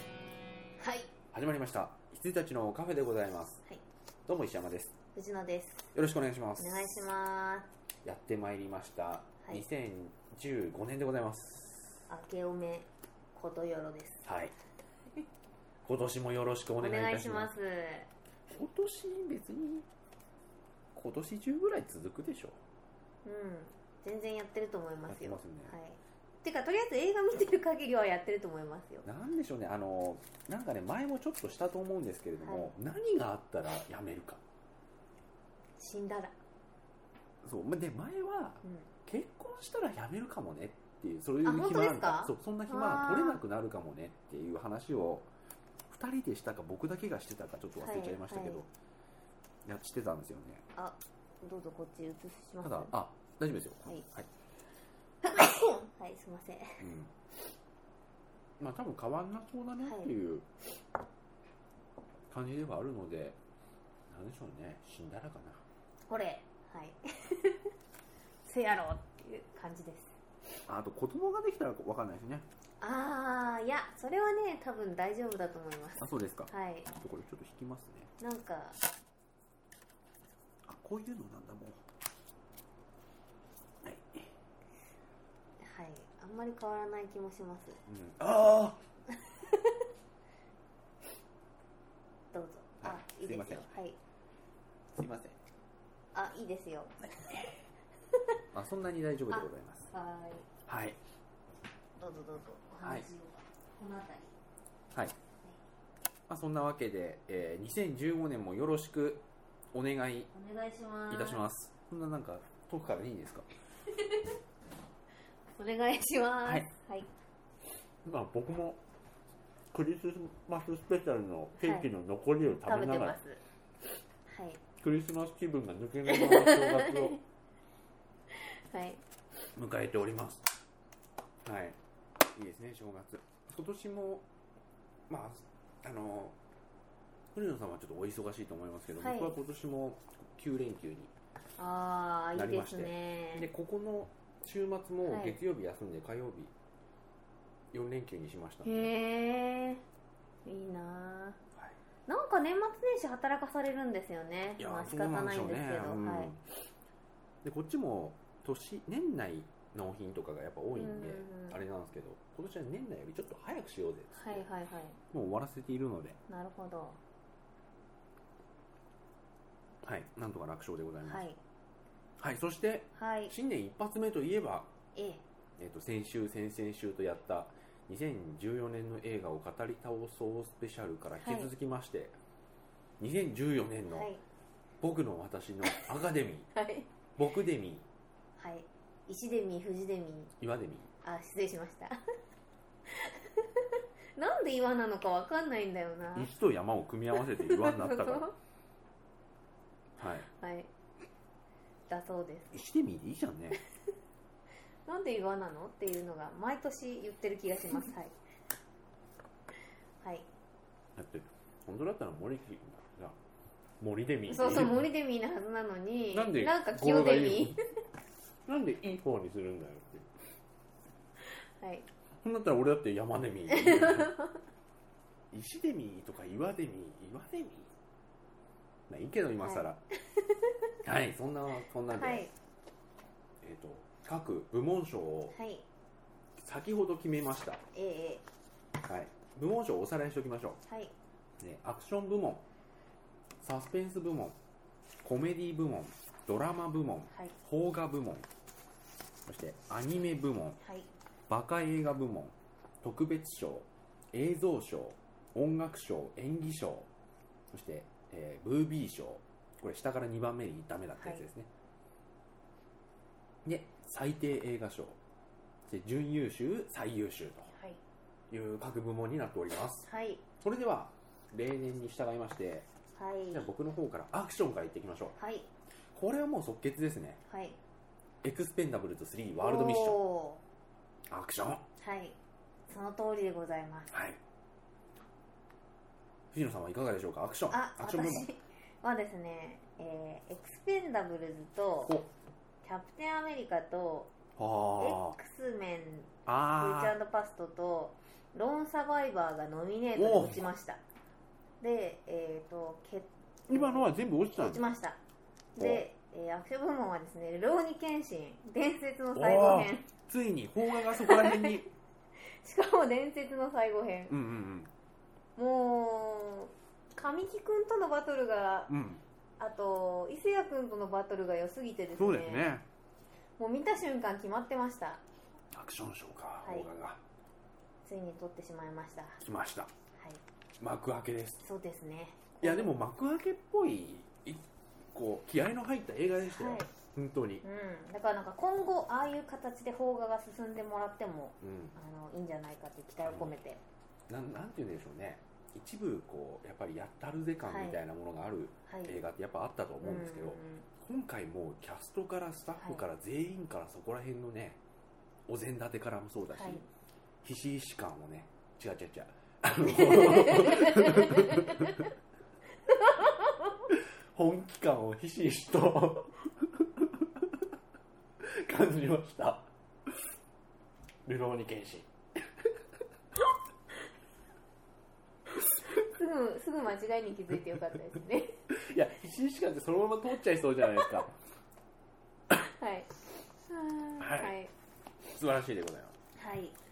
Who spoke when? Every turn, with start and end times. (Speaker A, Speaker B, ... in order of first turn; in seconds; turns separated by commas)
Speaker A: 0.8-1.1, Speaker B: 1.3-3.6, Speaker B: 4.3-5.0, Speaker A: 5.1-5.9, Speaker B: 5.9-7.0, Speaker A: 6.6-7.7, Speaker B: 8.1-12.1, Speaker A: 12.1-14.3, Speaker B: 14.2-14.6, Speaker B: 15.8-17.5, Speaker A: 16.8-18.1, Speaker B: 18.5-19.9, Speaker B: 20.9-22.6, Speaker A: 23.2-29.1, Speaker B: 25.1-25.8, Speaker B: 29.1-34.4, Speaker A: 32.4-32.7, Speaker A: 35.8-36.4, Speaker B: 37.4-45.3, Speaker A: 38.6-38.9, Speaker A: 41.4-43.4, Speaker B: 45.9-48.7, Speaker A: 47.8-48.6, Speaker B: 49.6-50.6, Speaker A: 50.7-52.9, Speaker B: 52.6-54.3, Speaker A: 55.2-56.9, Speaker B: 56.8-57.1, Speaker B: 58.6-60.5, Speaker A: 59.8-60.1, Speaker B: 62.3-63.4, Speaker B: 64.1-65.6, Speaker A: 66.1-67.7, Speaker A: 68.4-70.2, Speaker B: 70.7-72.5, Speaker A: 72.8-76.9, Speaker B: 76.0-78.1, Speaker A: 78.2-78.8, Speaker B: 80.7-81.8, Speaker B: 83.8-84.3, Speaker A: 85.6-87.8, Speaker B: 87.8-88.8, Speaker A: 89.1-89.8, Speaker A: 92.3-94.0, Speaker B: 92.8-93.7, Speaker B: 94.9-95.4, Speaker A: 96.1-97.5, Speaker B: 97.0-97.5, Speaker B: 98.5-99.9, Speaker A: 99.3-100.5, Speaker B: 100.7-101.0, Speaker A: 102.0-104.3, Speaker B: 102.8-103.1, Speaker B: 106.3-110.3, Speaker A: 110.3-111.4, Speaker B: 111.1-113.5, Speaker A: 114.0-114.3, Speaker A: 115.5-117.1, Speaker B: 116.4-116.7, Speaker B: 118.0-118.8, Speaker B: 119.7-123.2, Speaker A: 121.6-121.9, Speaker A: 122.6-123.4, Speaker A: 124.2-124.6, Speaker B: 124.8-127.2, Speaker A: 126.0-127.2, Speaker A: 128.3-129.0, Speaker B: 129.5-130.5, Speaker B: 131.4-134.2, Speaker B: 135.1-136.4, Speaker B: 137.3-141.1, Speaker A: 139.0-139.4, Speaker A: 141.6-143.5, Speaker B: 142.3-146.5, Speaker A: 145.0-145.4, Speaker B: 147.7-148.9, Speaker A: 148.6-149.8, Speaker A: 150.4-151.4, Speaker A: 152.1-156.3, Speaker B: 154.6-156.7, Speaker B: 157.4-164.4, Speaker A: 160.8-161.6, Speaker A: 164.2-165.0, Speaker B: 165.1-166.2, Speaker A: 166.3-167.0, Speaker B: 169.8-171.2, Speaker A: 171.0-171.4, Speaker B: 172.2-174.7, Speaker A: 172.9-173.3, Speaker A: 174.9-175.2, Speaker B: 175.6-182.2, Speaker A: 181.2-181.5, Speaker B: 183.0-184.1, Speaker A: 183.9-184.2, Speaker B: 184.8-186.5, Speaker A: 186.5-186.9, Speaker B: 187.2-187.8, Speaker A: 188.4-190.3, Speaker B: 190.4-190.9, Speaker A: 191.0-192.0, Speaker A: 192.9-196.3, Speaker B: 196.1-198.3, Speaker A: 197.2-198.3, Speaker B: 200.0-200.3, Speaker A: 200.2-200.7, Speaker A: 201.9-202.6, Speaker B: 202.5-203.6, Speaker A: 204.8-208.1, Speaker A: 210.0-210.3, Speaker B: 210.9-213.2, Speaker B: 213.8-214.8, Speaker A: 214.3-217.6, Speaker B: 216.1-217.6, Speaker B: 218.4-220.1, Speaker A: 221.3-221.9, Speaker B: 222.2-224.1, Speaker A: 223.5-224.4, Speaker B: 225.3-227.7, Speaker B: 228.9-229.8, Speaker A: 229.4-230.7, Speaker B: 230.8-232.3, Speaker A: 231.9-232.3, Speaker B: 233.4-235.3, Speaker A: 235.3-235.7, Speaker B: 236.4-237.6, Speaker A: 237.7-238.2, Speaker B: 238.8-240.6, Speaker A: 240.7-240.9, Speaker B: 241.4-242.4, Speaker B: 243.4-244.3, Speaker B: 245.0-248.3, Speaker A: 247.1-247.3, Speaker B: 249.2-250.6, Speaker A: 250.6-250.9, Speaker B: 251.3-256.9, Speaker B: 257.5-261.5, Speaker A: 261.0-261.2, Speaker B: 263.4-265.0, Speaker B: 265.7-267.5, Speaker A: 267.5-267.8, Speaker B: 268.3-269.9, Speaker A: 269.9-270.2, Speaker B: 270.4-272.7, Speaker A: 273.0-273.5, Speaker B: 273.3-275.1, Speaker A: 275.2-275.5, Speaker B: 275.9-277.2, Speaker A: 277.3-277.6, Speaker B: 278.2-280.0, Speaker A: 279.4-280.4, Speaker B: 281.1-281.6, Speaker A: 281.8-282.2, Speaker A: 282.7-283.9, Speaker B: 283.9-284.2, Speaker B: 286.3-288.3, Speaker A: 287.5-292.0, Speaker A: 292.6-294.1, Speaker B: 294.4-295.2, Speaker A: 294.8-300.8, Speaker B: 296.2-297.0, Speaker B: 300.0-300.5, Speaker A: 301.6-305.0, Speaker B: 303.5-304.6, Speaker A: 305.6-309.9, Speaker B: 305.6-305.9, Speaker B: 309.1-311.7, Speaker A: 310.7-311.6, Speaker A: 312.3-314.2, Speaker B: 314.1-314.7, Speaker A: 315.4-318.8, Speaker B: 318.7-319.0, Speaker A: 319.4-322.5, Speaker B: 322.0-322.6, Speaker A: 323.4-325.0, Speaker B: 325.5-327.0, Speaker A: 326.4-326.7, Speaker A: 327.8-329.2, Speaker B: 329.2-329.7, Speaker B: 330.6-331.4, Speaker A: 331.4-332.8, Speaker B: 332.4-337.4, Speaker A: 336.3-336.7, Speaker A: 337.4-343.6, Speaker B: 341.4-341.8, Speaker B: 343.1-343.4, Speaker B: 344.1-354.6, Speaker A: 347.4-347.8, Speaker A: 348.7-349.0, Speaker A: 349.8-350.7, Speaker A: 352.6-352.9, Speaker B: 355.3-356.6, Speaker A: 356.4-356.7, Speaker B: 357.2-361.9, Speaker A: 359.6-361.9, Speaker A: 362.7-363.7, Speaker B: 363.7-367.4, Speaker B: 368.2-369.9, Speaker B: 371.1-372.5, Speaker A: 375.6-378.4, Speaker B: 378.5-381.2, Speaker A: 382.3-384.5, Speaker B: 384.0-384.4, Speaker B: 385.0-386.0, Speaker A: 386.2-386.6